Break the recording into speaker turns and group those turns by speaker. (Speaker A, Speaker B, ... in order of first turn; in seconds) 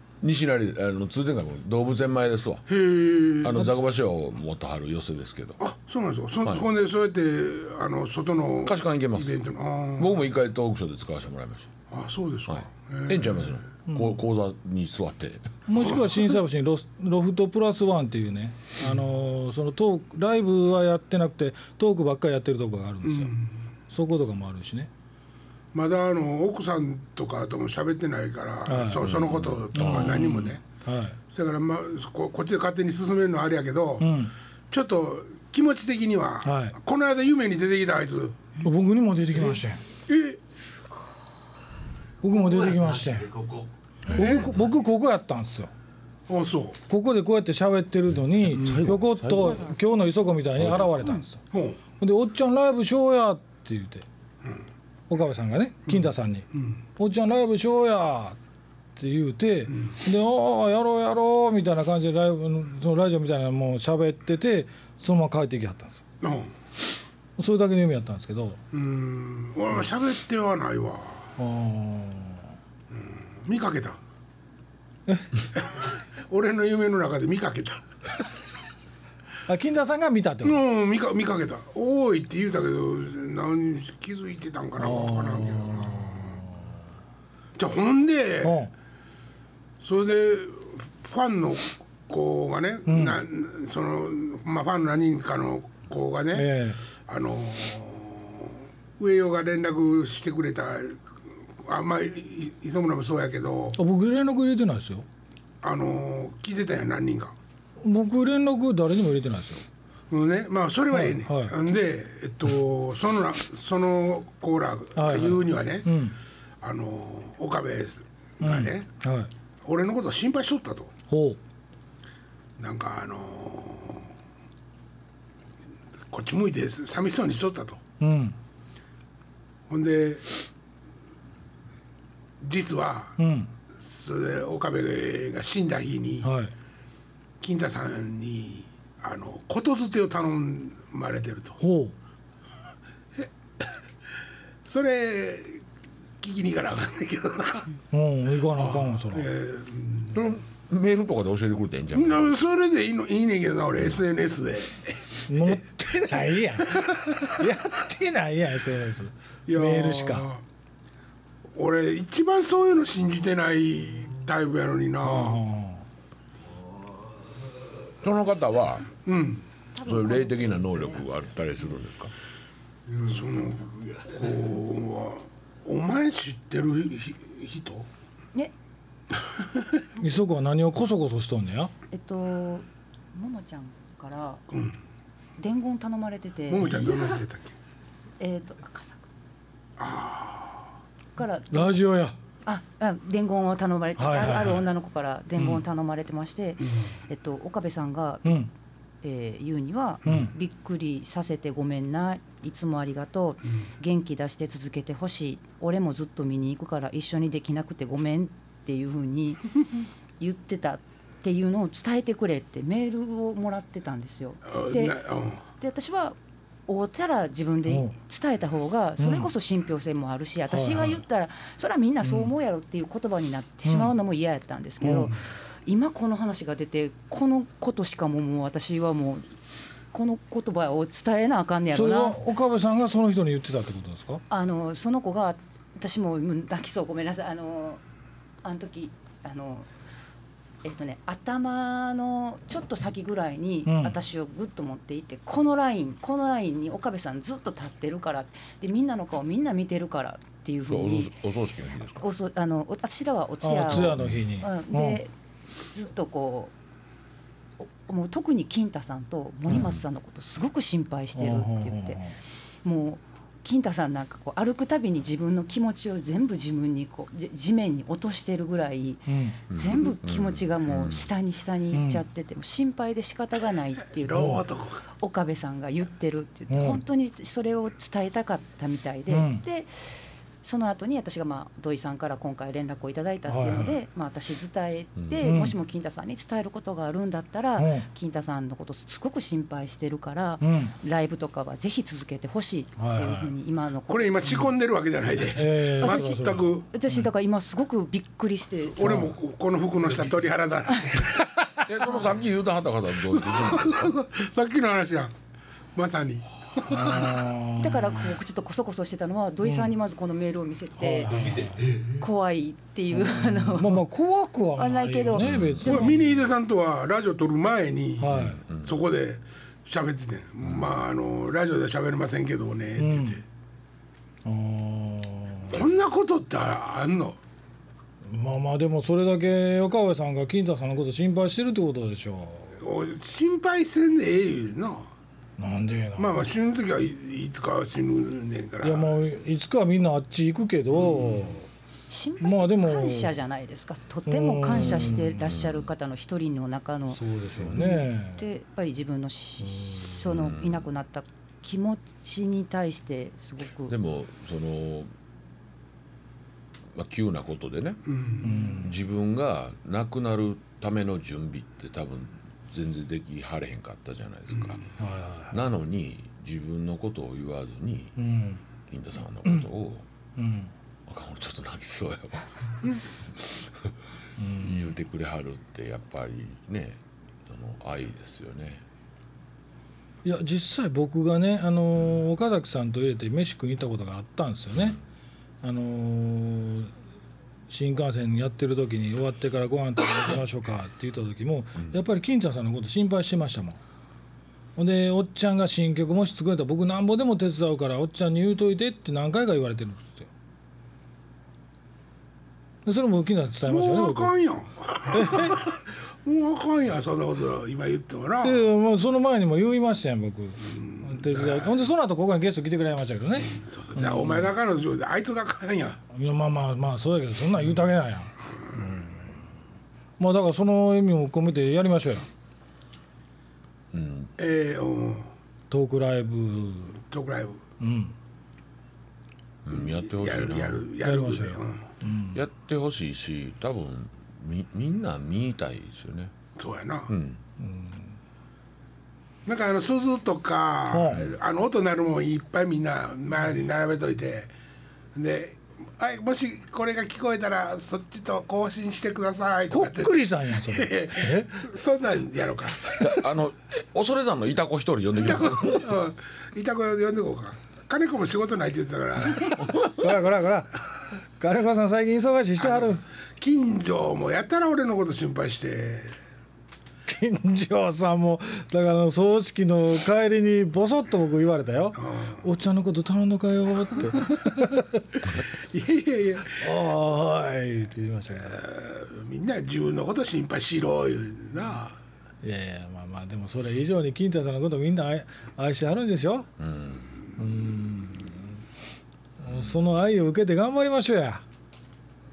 Speaker A: 0.2-2.7, 3.4-5.6, 8.6-9.4, 10.0-11.7, 12.5-15.5, 29.0-30.3, 48.4-49.7, 50.6-51.1, 150.1-152.3, 168.0-168.9, 169.8-172.1, 250.7-252.1, 253.7-254.2, 269.5-271.1, 301.6-303.9, 315.2-315.7, 318.1-318.7, 320.4-320.8, 344.5-345.7, 347.4-347.6, 350.1-350.6, 353.7-354.9, 356.7-357.8, 358.6-364.6, 365.3-368.0, 368.7-369.9, 370.9-372.5, 373.2-373.7, 374.4-378.6, 423.7-424.1, 429.4-430.7, 432.1-436.1, 436.9-437.2, 452.7-455.7, 459.4-460.0, 486.4-486.9, 489.2-489.7
Speaker B: 2.7-3.7, 5.6-10.2, 11.9-13.6, 15.8-16.2, 23.0-23.5, 25.7-30.6, 31.3-38.5, 40.1-40.4, 44.1-44.5, 46.3-46.8, 48.6-48.8, 51.5-51.8, 55.9-56.8, 66.2-66.5, 68.7-71.3, 72.9-74.0, 75.8-77.8, 80.4-86.4, 87.6-88.6, 89.8-101.0, 101.6-103.8, 105.6-107.3, 110.1-116.0, 116.6-118.8, 119.7-120.9, 122.6-124.1, 126.1-127.8, 129.7-130.2, 132.4-133.2, 133.8-136.3, 137.4-141.6, 144.7-145.6, 146.2-147.7, 148.5-150.3, 151.9-155.6, 156.7-157.2, 159.5-160.4, 161.6-165.4, 169.1-169.4, 173.0-177.9, 184.5-184.8, 186.5-187.5, 189.8-190.7, 196.7-196.9, 214.5-215.4, 274.0-274.8, 293.9-296.7, 298.7-301.3, 303.1-305.1, 305.8-307.2, 315.6-323.2, 325.5-327.2, 332.6-334.9, 336.0-339.0, 340.8-341.3, 357.9-358.6, 403.5-408.5, 410.6-411.6, 413.2-415.8, 424.2-425.1, 426.9-427.4, 429.5-431.6, 436.4-436.9, 439.3-444.3, 444.9-452.9, 455.0-459.4, 462.4-466.0, 471.7-472.3, 475.5-476.4, 478.2-481.8
Speaker C: 13.9-14.2, 15.7-23.3, 23.9-24.9, 28.7-29.1, 29.7-31.2, 34.0-34.3, 36.4-36.8, 38.6-39.8, 42.2-43.3, 44.1-45.7, 46.9-51.4, 52.0-54.0, 55.1-56.5, 57.0-58.4, 59.0-66.0, 67.4-68.6, 71.4-72.5, 79.5-80.6, 84.8-86.7, 88.4-88.7, 92.9-93.2, 96.3-96.8, 103.8-105.1, 107.8-109.6, 110.9-111.5, 115.0-116.2, 118.4-119.3, 121.1-121.4, 128.0-128.4, 133.2-133.5, 136.2-136.5, 141.6-141.9, 147.9-149.3, 155.3-160.3, 165.0-165.8, 180.0-181.7, 191.5-192.2, 194.0-194.7, 198.2-198.5, 200.1-200.3, 219.0-219.3, 220.5-221.0, 222.0-222.3, 223.7-223.9, 224.8-225.1, 231.7-234.2, 243.7-244.0, 253.4-255.0, 259.5-259.8, 261.2-262.1, 269.1-269.4, 271.7-272.0, 276.5-276.8, 279.1-279.4, 283.3-283.7, 285.2-285.6, 287.6-287.9, 290.4-290.7, 292.8-293.3, 295.3-297.1, 298.8-299.2, 306.7-308.1, 309.4-309.7, 310.8-311.6, 312.9-316.1, 318.0-318.4, 322.8-323.2, 324.2-325.6, 328.1-332.5, 335.4-336.1, 338.6-341.5, 342.2-343.1, 344.1-345.2, 346.9-348.2, 349.4-350.0, 358.2-358.8, 364.8-365.4, 368.0-368.4, 370.2-370.5, 374.2-374.6, 380.0-384.8, 385.4-386.7, 387.5-393.6, 394.6-400.1, 402.6-404.1, 404.9-405.4, 408.2-414.3, 415.9-419.1, 420.0-422.1, 425.5-426.8, 427.6-427.9, 430.8-432.2, 437.4-437.9, 440.7-441.1, 449.5-451.4, 459.3-460.6, 461.2-462.8, 466.9-474.8, 476.4-478.4, 482.2-486.3, 487.2-488.2, 489.2-491.2
Speaker D: 42.3-43.7, 299.9-300.1, 311.0-312.0
Speaker E: 169.8-171.0, 181.9-184.4, 185.4-187.1, 188.2-189.1, 191.2-191.8, 192.4-198.5, 199.0-209.6, 210.2-216.2, 216.7-229.3, 229.9-232.2, 234.3-237.8, 238.4-239.7, 240.6-251.1, 252.0-255.1, 255.7-256.5, 257.6-262.0, 262.6-274.4, 275.0-279.7, 280.4-294.4, 295.8-296.2, 296.7-299.1, 307.6-311.1, 312.0-313.9, 314.6-316.0, 341.9-353.8